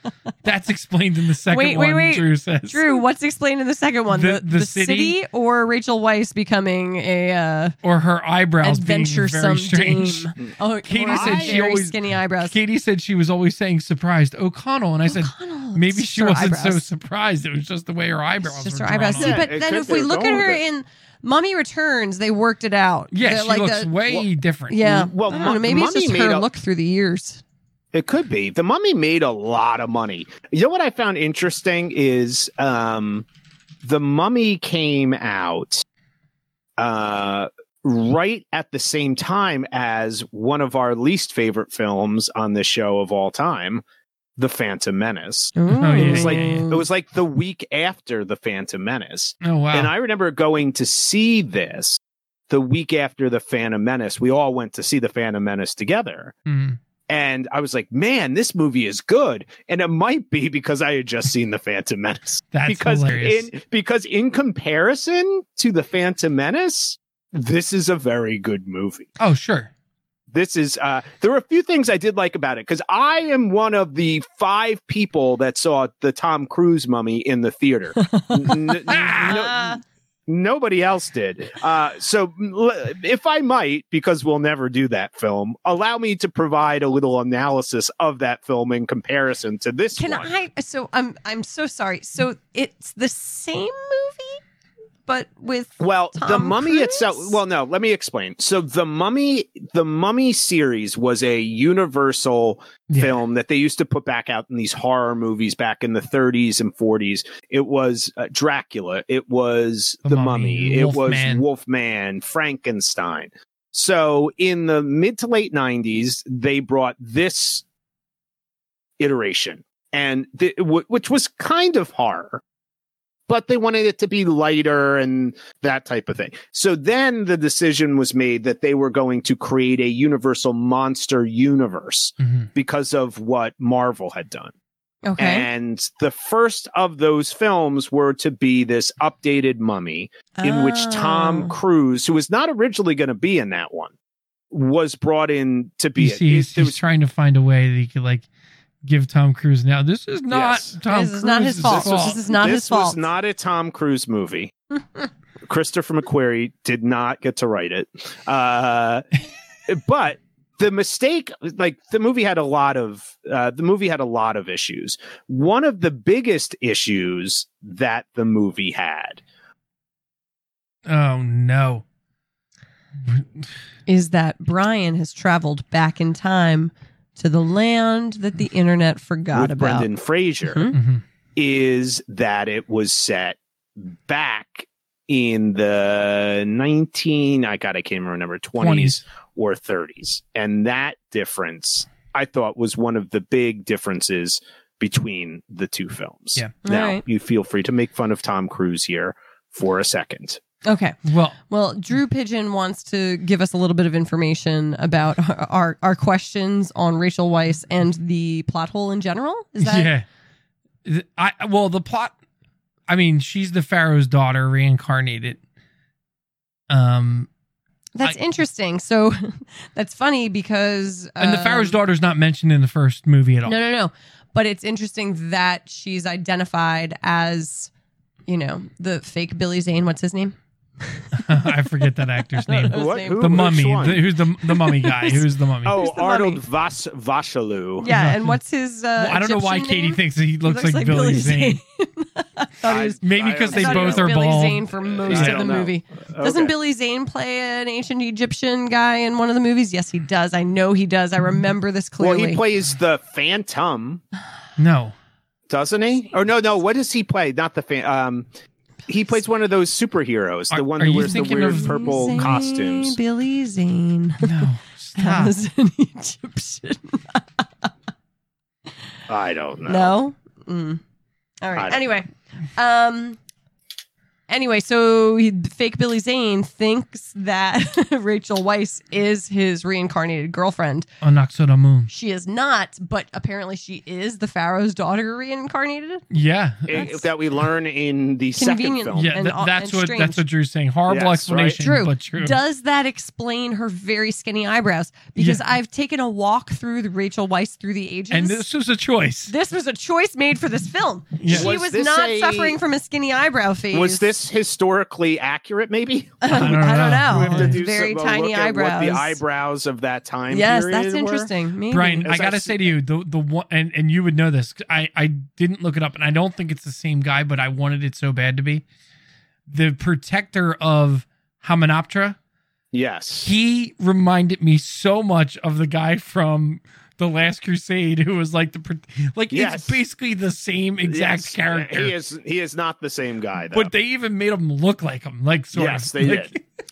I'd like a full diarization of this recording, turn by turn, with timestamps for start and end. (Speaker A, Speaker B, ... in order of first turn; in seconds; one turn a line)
Speaker A: 0.4-3.0
Speaker B: 1.5-7.8
Speaker A: 4.1-5.2
Speaker A: 7.8-10.3
Speaker B: 8.6-12.6
Speaker A: 10.9-19.4
Speaker C: 11.1-11.6
Speaker B: 15.1-16.9
Speaker B: 18.4-23.9
Speaker C: 19.2-20.6
Speaker A: 23.1-25.0
Speaker B: 24.7-27.4
Speaker C: 24.8-26.5
Speaker C: 27.9-33.3
Speaker C: 33.8-35.8
Speaker C: 36.8-43.8
Speaker C: 44.4-56.3
Speaker B: 45.6-46.8
Speaker A: 45.8-46.7
Speaker A: 49.4-49.9
Speaker A: 56.5-56.8
Speaker C: 57.1-69.1
Speaker A: 62.5-63.5
Speaker A: 69.2-69.7
Speaker C: 70.3-90.3
Speaker B: 78.0-79.8
Speaker A: 78.9-79.5
Speaker B: 90.0-94.4
Speaker B: 95.1-97.4
Speaker C: 95.8-117.6
Speaker A: 102.9-103.2
Speaker A: 110.1-111.5
Speaker C: 119.0-122.4
Speaker C: 123.3-134.5
Speaker A: 132.2-132.5
Speaker B: 135.1-135.5
Speaker C: 135.2-143.9
Speaker B: 140.4-141.6
Speaker C: 144.5-146.8
Speaker A: 146.0-148.3
Speaker A: 148.8-152.2
Speaker C: 150.3-150.8
Speaker B: 150.9-153.1
Speaker C: 151.6-154.5
Speaker C: 155.5-159.1
Speaker C: 159.7-169.2
Speaker A: 170.9-171.8
Speaker A: 173.0-173.5
Speaker B: 173.9-179.9
Speaker C: 179.3-180.7
Speaker B: 180.5-180.8
Speaker A: 180.7-181.0
Speaker C: 181.4-200.4
Speaker A: 188.6-189.0
Speaker B: 196.6-197.0
Speaker B: 200.6-201.0
Speaker A: 201.1-201.4
Speaker B: 201.5-209.9
Speaker A: 209.6-210.0
Speaker A: 210.8-212.1
Speaker A: 212.9-215.4
Speaker A: 216.7-217.3
Speaker B: 218.0-221.8
Speaker A: 221.2-223.6
Speaker B: 223.5-227.7
Speaker B: 228.3-231.5
Speaker A: 231.2-235.8
Speaker B: 232.4-233.6
Speaker C: 232.7-234.1
Speaker B: 234.4-236.4
Speaker C: 235.6-237.9
Speaker B: 237.8-252.4
Speaker A: 237.9-238.4
Speaker A: 239.0-241.6
Speaker C: 242.7-244.2
Speaker A: 243.0-245.6
Speaker C: 244.8-246.5
Speaker C: 252.0-254.0
Speaker A: 254.6-254.9
Speaker C: 255.5-258.3
Speaker C: 258.9-263.0
Speaker A: 260.5-262.3
Speaker B: 261.0-264.4
Speaker A: 264.2-265.4
Speaker B: 265.0-267.7
Speaker C: 269.1-270.0
Speaker B: 269.7-270.8
Speaker B: 271.4-273.2
Speaker C: 271.6-271.8
Speaker B: 274.3-280.9
Speaker A: 281.0-281.9
Speaker B: 281.9-286.1
Speaker A: 286.1-286.9
Speaker C: 286.7-289.2
Speaker B: 286.7-287.0
Speaker B: 288.4-290.2
Speaker A: 289.0-292.4
Speaker C: 290.9-291.6
Speaker B: 291.6-298.4
Speaker A: 298.1-299.3
Speaker B: 299.3-304.1
Speaker A: 301.2-301.5
Speaker C: 301.3-302.6
Speaker C: 303.7-311.3
Speaker B: 306.2-309.2
Speaker A: 306.3-307.6
Speaker B: 310.3-312.1
Speaker A: 311.7-318.6
Speaker C: 312.0-312.8
Speaker A: 319.5-322.2
Speaker C: 322.7-323.3
Speaker A: 323.2-331.9
Speaker C: 329.3-329.8
Speaker C: 330.9-333.7
Speaker A: 333.5-336.4
Speaker C: 335.5-336.3